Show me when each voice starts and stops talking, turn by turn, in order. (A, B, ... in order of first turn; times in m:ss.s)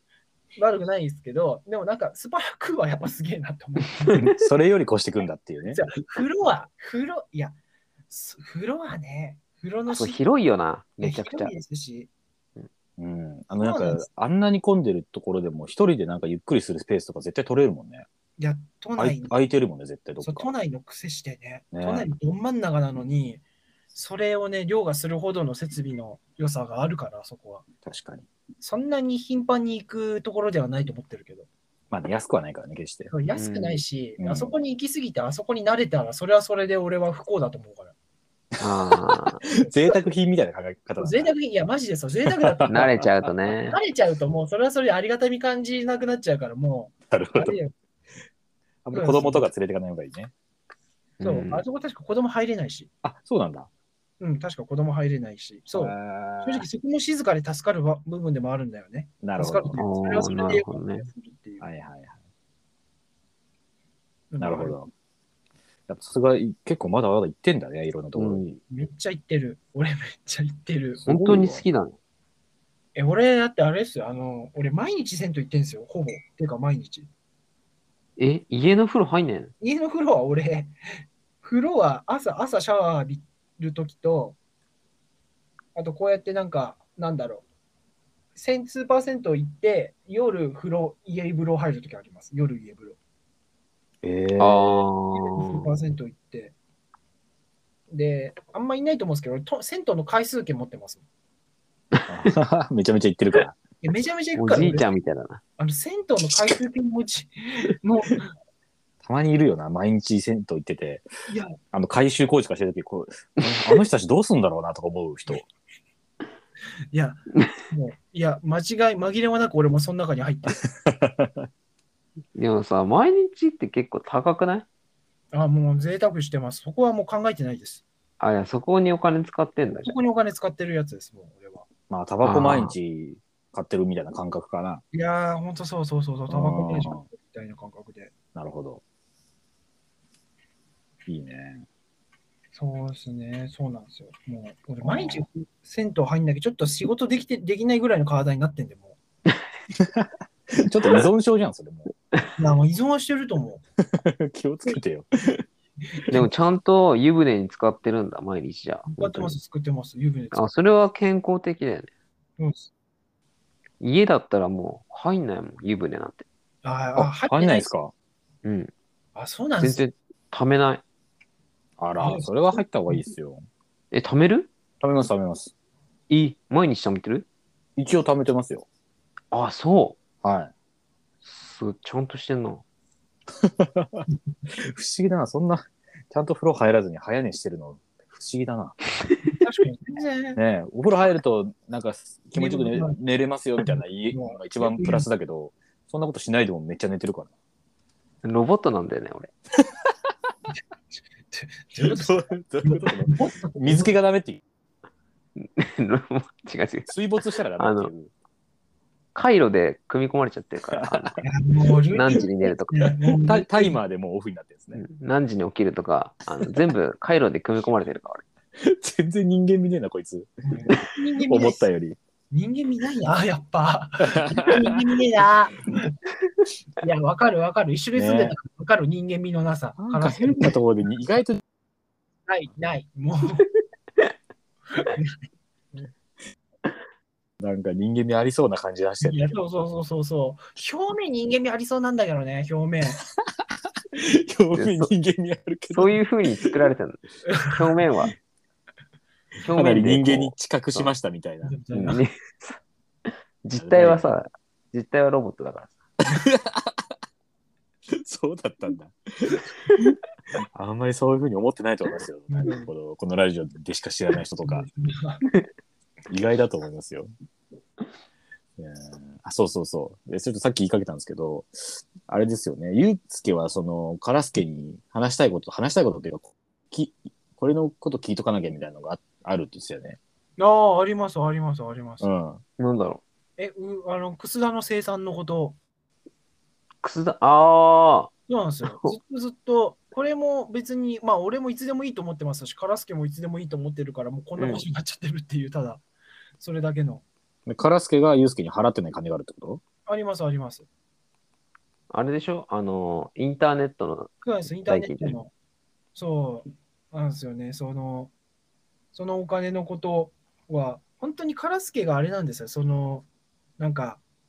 0:00.6-0:04.3 A
0:04.1-0:05.8 B
0:05.7-0:07.6 A
0:08.1-0:10.2 A
0:09.9-0:11.5 C
0:11.0-0:12.1 A
0:13.0-0:18.1 B
0:13.6-0:14.0 A
0:18.4-0:19.3 A
0:19.0-0:20.5 B
0:20.2-0:23.4 A
0:21.7-0:22.1 B
0:23.9-0:27.6 A
0:27.8-0:28.3 B
0:28.6-0:31.5 A
0:31.9-0:33.1 B
0:33.1-0:37.9 A
0:33.4-0:33.8 C
0:34.2-0:34.6 B
0:38.6-0:39.4 C
0:38.9-0:41.3 B
0:39.6-0:40.0 A
0:41.0-0:47.7 A
0:42.2-0:43.1 B
0:42.7-0:43.8 C
0:47.1-0:47.6 B
0:48.8-0:50.3 B
0:48.9-0:49.5 A
0:51.2-0:51.6 C
0:51.2-0:52.9 A
0:53.0-0:53.7 B
0:54.2-1:01.7 A
0:55.7-0:56.7 B
0:59.2-0:59.8 B
0:59.8-1:01.1 C
1:01.6-1:02.2 B
1:04.3-1:04.8 A
1:04.4-1:04.9 B
1:05.9-1:08.5 B
1:08.2-1:08.6 C
1:08.7-1:11.1 A
1:11.0-1:11.6 B
1:11.1-1:12.0 C
1:13.0-1:17.1 A
1:18.2-1:19.5 C
1:19.6-1:20.7 A
1:21.4-1:24.4 A
1:25.8-1:27.4 A
1:28.4-1:33.0 A
1:34.0-1:34.9 B
1:34.4-1:35.7 C
1:35.1-1:36.5 A
1:37.9-1:41.0 A
1:42.1-1:43.6 B
1:43.8-1:45.0 A
1:44.4-1:45.4 C
1:45.6-1:48.3 A
1:49.0-1:51.1 B
1:51.3-1:51.6 A
1:51.7-1:55.5 B
1:56.9-2:00.6 A
2:00.5-2:01.5 B
2:02.4-2:04.7 C
2:05.3-2:07.8 A
2:08.2-2:10.0 C
2:09.8-2:11.7 A
2:11.9-2:14.8 B
2:12.2-2:12.7 C
2:14.9-2:18.1 A
2:16.3-2:17.0 B
2:18.4-2:18.8 B
2:21.1-2:21.7 B
2:22.5-2:29.0 A
2:24.8-2:25.3 B
2:29.8-2:31.9 B
2:32.4-2:33.6 A
2:33.9-2:35.4 B
2:36.1-2:39.4 C
2:38.9-2:40.5 A
2:40.3-2:41.9 C
2:42.4-2:42.7 A
2:43.8-2:46.2 C
2:46.6-2:47.7 A
2:47.0-2:47.9 B
2:48.4-2:48.7 C
2:49.2-2:49.8 A
2:49.6-2:50.8 C
2:51.8-2:53.4 B
2:52.0-2:53.0 A
2:53.9-2:54.5 C
2:54.8-2:55.5 B
2:56.1-2:57.3 C
2:57.8-2:58.7 B
2:59.3-3:00.0 C
3:00.2-3:00.5 B
3:01.2-3:02.6 C
3:03.4-3:08.8 B
3:09.4-3:10.4 A
3:10.4-3:17.3 B
3:12.4-3:13.0 A
3:13.6-3:15.1 A
3:18.2-3:19.3 C
3:19.6-3:19.9 B
3:21.3-3:23.9 A
3:21.8-3:24.4 B
3:25.4-3:26.9 C
3:26.9-3:28.1 B
3:27.6-3:27.9 C
3:29.2-3:31.2 C
3:30.7-3:31.2 B
3:31.2-3:33.8 A
3:31.9-3:32.9 C
3:33.2-3:34.8 B
3:34.7-3:38.2 C
3:38.6-3:42.0 B
3:40.4-3:41.6 A
3:42.3-3:45.9 A
3:44.0-3:44.8 B
3:46.8-3:50.6 A
3:48.0-3:48.4 B
3:49.8-3:51.4 B
3:52.3-3:53.5 A
3:54.8-3:55.2 A
3:57.4-3:59.4 B
3:59.0-4:03.0 A
4:03.2-4:06.5 B
4:04.5-4:04.9 C
4:05.7-4:08.2 C
4:07.3-4:07.5 A
4:09.4-4:10.9 C
4:09.5-4:11.6 B
4:11.4-4:12.0 A
4:11.7-4:12.6 C
4:13.4-4:15.7 C
4:13.6-4:14.1 B
4:16.1-4:16.8 B
4:17.9-4:20.0 B
4:20.5-4:24.7 B
4:22.3-4:22.7 A
4:24.4-4:25.2 A
4:26.1-4:27.1 B
4:28.6-4:40.0 B
4:40.4-4:42.1 A
4:42.0-4:42.4 B
4:42.6-4:43.0 C
4:43.4-4:45.6 A
4:46.8-4:48.1 C
4:48.3-4:55.8 A
4:48.6-4:48.9 C
4:54.4-4:54.6 C
4:56.4-4:57.0 A
4:57.5-4:59.6 B
4:59.9-5:00.7 A
5:01.9-5:05.2 C
5:04.2-5:05.3 A
5:06.0-5:08.1 A
5:08.9-5:13.1 A
5:13.6-5:14.0 A